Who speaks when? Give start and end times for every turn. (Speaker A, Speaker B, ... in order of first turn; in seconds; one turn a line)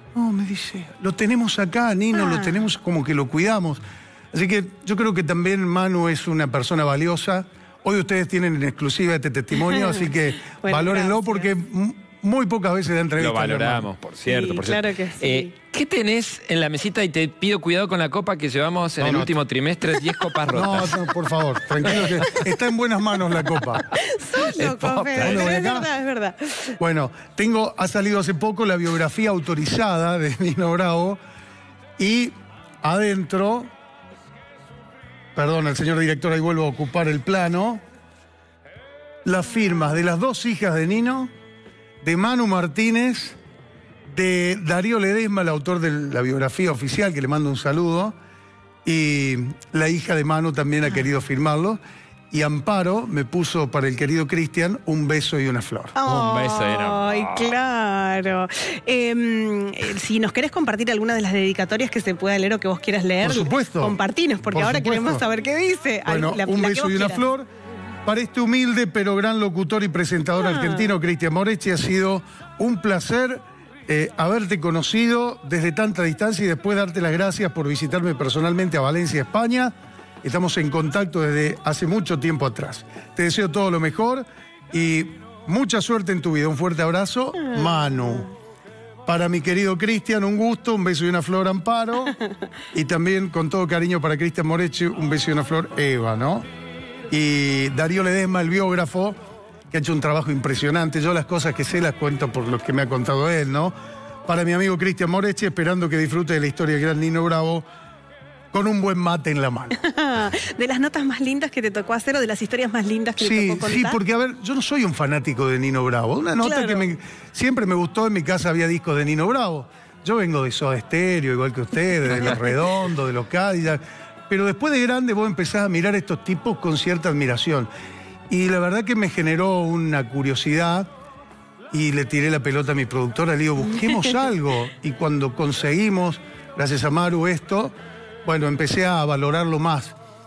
Speaker A: 0.1-13.9
Speaker B: 2.1-2.6
Speaker B: 9.6-11.5
Speaker C: 13.2-21.0
Speaker B: 14.2-15.5
Speaker A: 19.0-19.3
Speaker A: 20.5-23.8
Speaker C: 21.8-22.3
Speaker B: 23.9-26.8
Speaker C: 24.5-25.5
Speaker A: 25.2-25.9
Speaker A: 26.8-31.2
Speaker A: 32.0-33.7
Speaker A: 35.3-37.8
Speaker A: 39.2-41.3
Speaker A: 42.0-43.4
Speaker A: 44.1-48.1
Speaker A: 48.8-51.8
Speaker A: 52.3-56.0
Speaker B: 56.0-67.2
Speaker C: 56.0-57.5
Speaker A: 63.2-65.2
Speaker A: 66.0-67.5
Speaker A: 68.0-88.3
Speaker B: 70.4-70.9
Speaker B: 87.5-87.9
Speaker A: 89.0-92.2
Speaker A: 92.7-96.5
Speaker A: 97.1-99.2
Speaker A: 99.7-103.7
Speaker A: 104.2-107.6
Speaker A: 108.5-109.7
Speaker B: 109.7-114.0
Speaker A: 113.2-127.7
Speaker B: 116.4-116.8
Speaker A: 128.3-130.9
Speaker A: 131.7-139.9